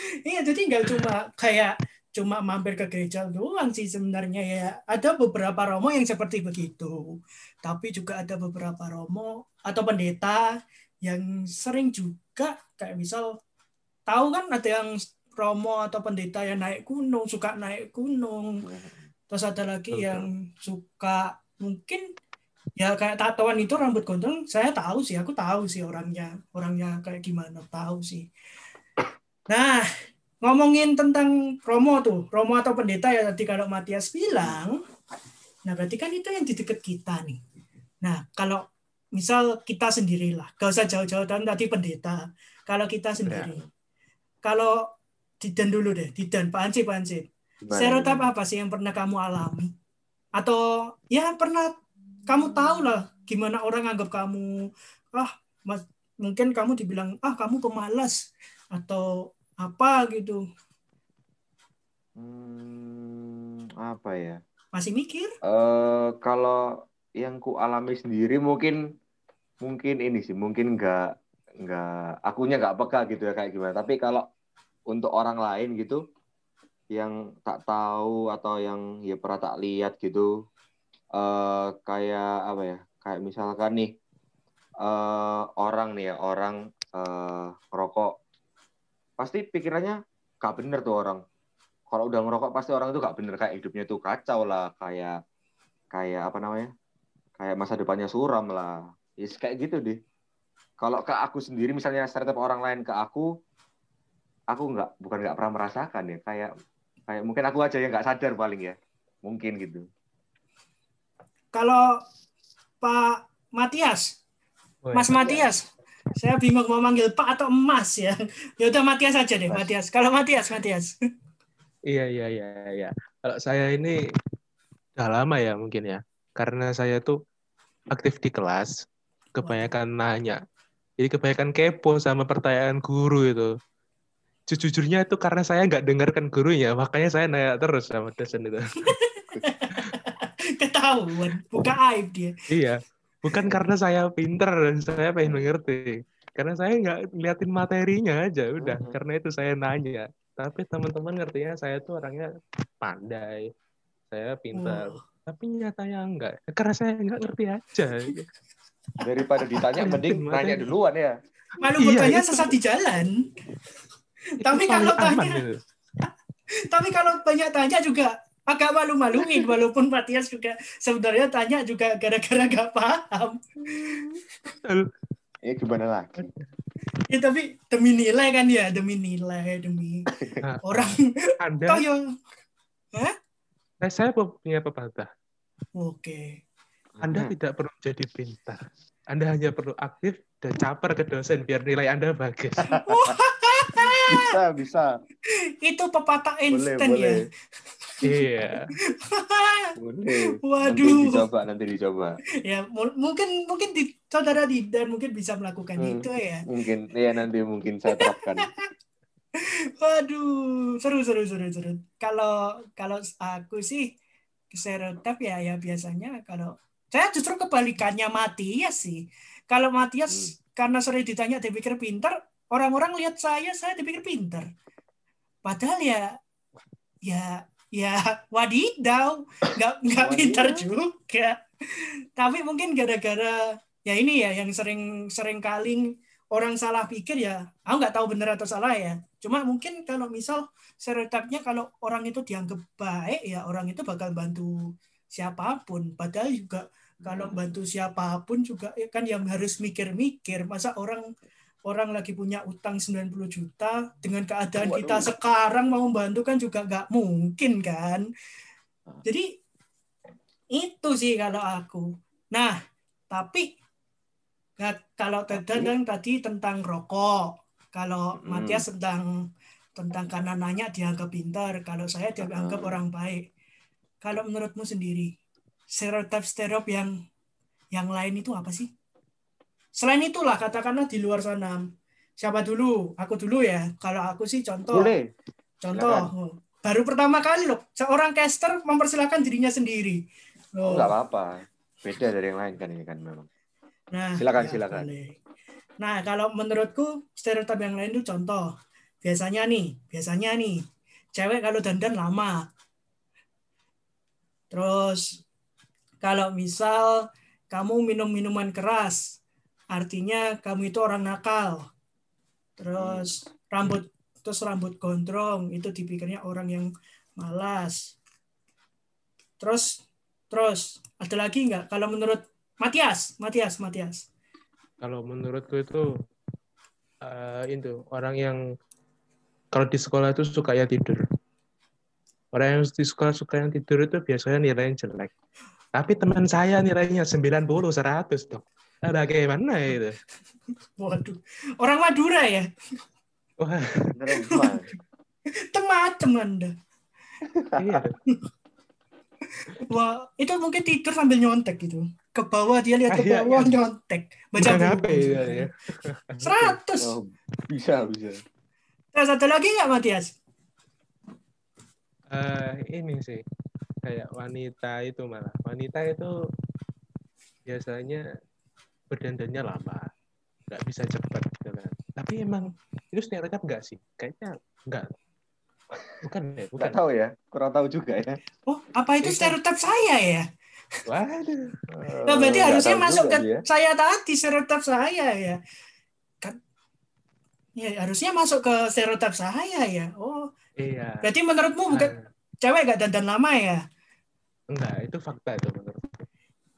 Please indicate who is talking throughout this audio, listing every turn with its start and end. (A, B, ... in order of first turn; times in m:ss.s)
0:00.2-0:10.5 A
0:11.0-0:13.3 A
0:14.1-0:18.6 A
0:18.6-0:19.0 B
0:19.3-0:22.0 A
0:19.9-0:20.3 C
0:22.8-0:28.3 A
0:29.5-0:29.8 A
0:30.4-0:34.8 A
0:35.6-0:37.4 A
0:38.0-0:38.6 A
0:39.1-0:43.6 A
0:43.2-0:43.5 C
0:44.4-0:44.8 A
0:45.4-0:49.7 A
0:47.6-0:48.3 B
0:50.4-0:51.7 A
0:52.3-0:54.5 A
0:55.1-0:59.1 A
0:59.6-1:00.4 A
1:02.2-1:04.4 B
1:04.7-1:05.3 A
1:05.4-1:06.6 B
1:07.2-1:08.8 B
1:09.6-1:11.1 B
1:11.6-1:14.2 B
1:14.9-1:16.0 B
1:16.9-1:20.3 B
1:21.2-1:23.9 B
1:24.8-1:28.1 B
1:29.2-1:31.2 B
1:31.9-1:35.2 B
1:35.9-1:36.7 B
1:37.4-1:40.0 B
1:40.8-1:43.3 B
1:44.5-1:46.5 B
1:47.1-1:49.8 B
1:51.5-1:51.8 A
1:52.8-1:54.1 A
1:54.8-1:55.2 C
1:54.9-2:00.9 A
2:01.9-2:04.0 C
2:05.0-2:07.1 C
2:07.9-2:08.7 C
2:09.4-2:10.4 C
2:09.4-2:09.7 A
2:11.0-2:13.5 C
2:14.5-2:18.6 C
2:19.0-2:22.3 A
2:22.5-2:32.2 C
2:25.2-2:25.5 B
2:28.6-2:29.0 B
2:32.8-2:33.5 C
2:34.1-2:38.2 C
2:34.5-2:35.0 A
2:39.0-2:41.1 B
2:39.8-2:40.7 C
2:41.6-2:43.3 A
2:41.8-2:42.5 C
2:44.4-2:45.4 A
2:44.4-2:45.6 C
2:46.7-2:54.1 A
2:54.5-2:54.9 C
2:55.4-2:56.3 B
2:57.1-3:00.1 A
3:00.1-3:00.4 B
3:00.4-3:01.8 C
3:00.6-3:02.0 A
3:03.8-3:05.1 C
3:05.8-3:06.4 A
3:07.0-3:07.3 B
3:07.0-3:08.6 C
3:09.1-3:12.8 C
3:12.7-3:14.3 A
3:13.8-3:14.9 B
3:15.3-3:17.2 A
3:16.5-3:17.2 B
3:17.9-3:18.2 A
3:18.0-3:18.7 C
3:18.8-3:19.8 A
3:19.8-3:22.2 B
3:20.4-3:21.2 A
3:22.4-3:26.4 A
3:25.8-3:28.5 B
3:27.9-3:28.7 A
3:29.4-3:33.9 A
3:34.5-3:44.5 A
3:45.4-3:46.2 A
3:47.0-4:11.0 A
3:50.0-3:50.7 B
4:07.0-4:07.6 B
4:11.7-4:18.0 A
4:14.6-4:15.1 B
4:20.5-4:22.5 A
4:23.1-4:23.4 A
4:24.6-4:29.1 A
4:25.3-4:25.7 B
4:28.2-4:28.6 B
4:29.8-4:33.2 A
4:32.2-4:32.8 B
4:34.0-4:35.1 A
4:35.7-4:36.9 A
4:37.7-4:38.7 A
4:39.8-4:41.6 A
4:42.2-4:44.9 A
4:44.7-4:45.1 B
4:45.6-4:50.0 A
4:45.7-4:46.1 B
4:50.5-4:50.9 A
4:50.6-4:53.3 B
4:53.9-4:55.2 A
4:54.2-4:54.9 B
4:55.8-4:58.5 A
4:59.0-5:00.6 A
5:01.1-5:02.4 A
5:04.5-5:05.2 A
5:06.0-5:09.2 A
5:09.7-5:11.6 A
5:12.6-5:17.9 A
5:12.8-5:13.1 B
5:19.4-5:24.1 A
5:24.8-5:25.8 C
5:27.0-5:28.4 C
5:29.5-5:31.0 C
5:32.3-5:35.1 C
5:35.8-5:40.0 C
5:40.8-5:42.5 A
5:43.4-5:43.9 C
5:44.0-5:44.7 B
5:44.2-5:44.5 A
5:45.5-5:46.5 A
5:47.2-5:47.8 B
5:47.6-5:47.9 C
5:49.6-5:55.5 A
5:52.9-5:53.5 C
5:54.4-5:56.6 C
5:56.2-5:57.0 A
5:56.8-5:58.2 B
5:58.9-6:00.2 A
6:02.1-6:03.2 C
6:03.8-6:06.1 C
6:07.4-6:08.0 C
6:08.9-6:09.9 C
6:10.5-6:14.9 C
6:16.0-6:16.8 C
6:16.6-6:18.2 B
6:18.5-6:20.2 A
6:19.0-6:19.4 C
6:20.9-6:21.5 C
6:21.7-6:23.4 B
6:22.0-6:25.4 A
6:27.6-6:30.3 A
6:30.6-6:31.0 C
6:31.0-6:33.6 A
6:34.5-6:36.0 C